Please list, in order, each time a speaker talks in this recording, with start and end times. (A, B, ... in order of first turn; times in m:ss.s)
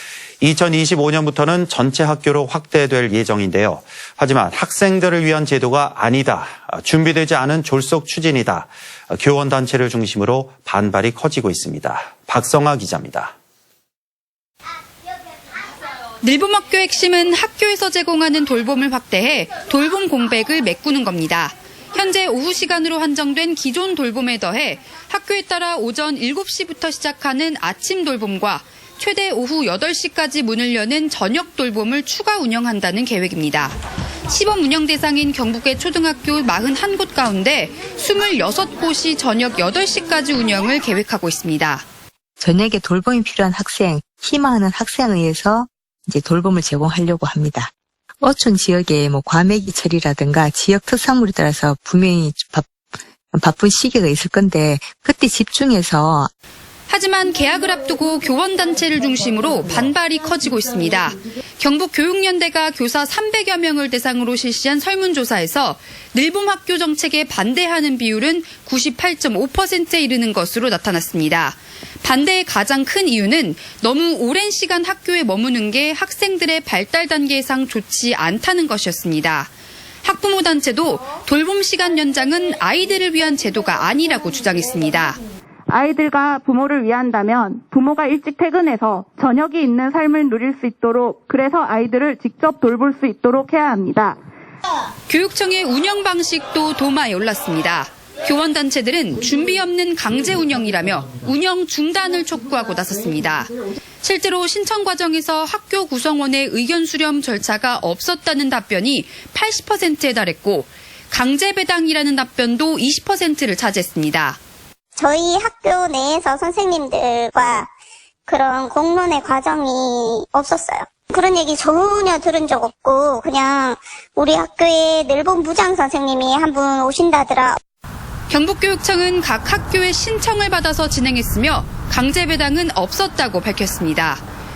0:00.4-0:13.3 A
0:16.2-0:33.8 B
0:34.3-0:41.8 B
0:42.4-0:52.8 C
0:53.3-0:56.3 C
0:56.9-1:19.5 B
1:20.0-1:25.2 B
1:25.7-1:34.2 D
1:35.1-1:54.4 B
1:55.0-1:57.7 E
1:58.3-2:07.6 E
2:08.3-2:14.2 B